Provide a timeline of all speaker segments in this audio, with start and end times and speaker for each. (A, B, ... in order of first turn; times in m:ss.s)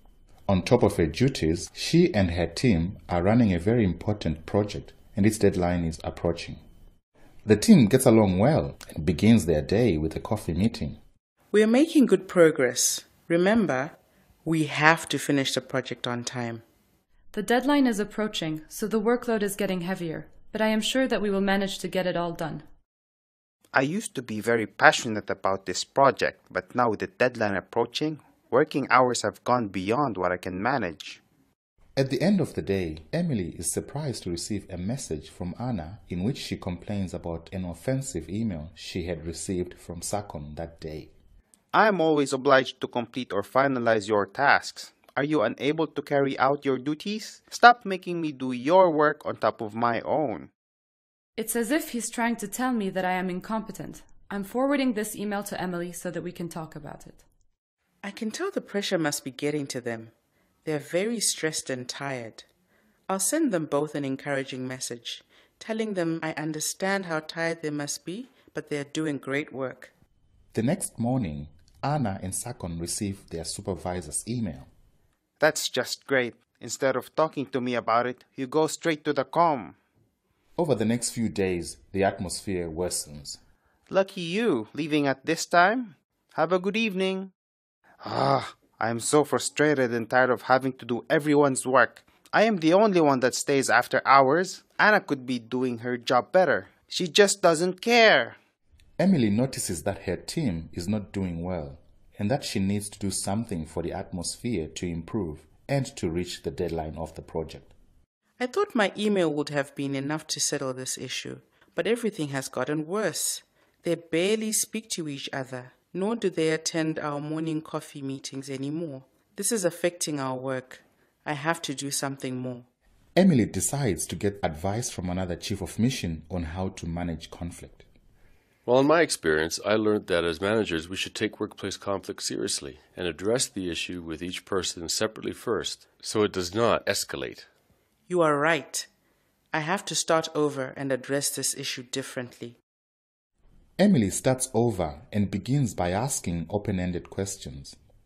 0:00.5-0:06.6 A
0:07.5-0:11.0 A
0:11.5-0:16.6 B
0:17.3-0:22.6 C
0:23.7-0:31.2 D
0:32.0-0:41.1 A
0:41.7-0:50.5 D
0:51.4-0:57.2 C
0:58.0-1:00.1 B
1:00.7-1:02.4 B
1:03.1-1:09.9 B
1:10.5-1:14.7 A
1:15.4-1:19.8 D
1:20.6-1:23.4 A
1:23.9-1:27.3 D
1:28.0-1:38.4 D
1:39.0-1:47.7 A
1:48.4-2:02.7 B
2:03.2-2:07.8 A
2:08.7-2:17.5 E
2:18.1-2:18.9 B
2:19.5-2:22.6 B
2:23.8-2:27.8 A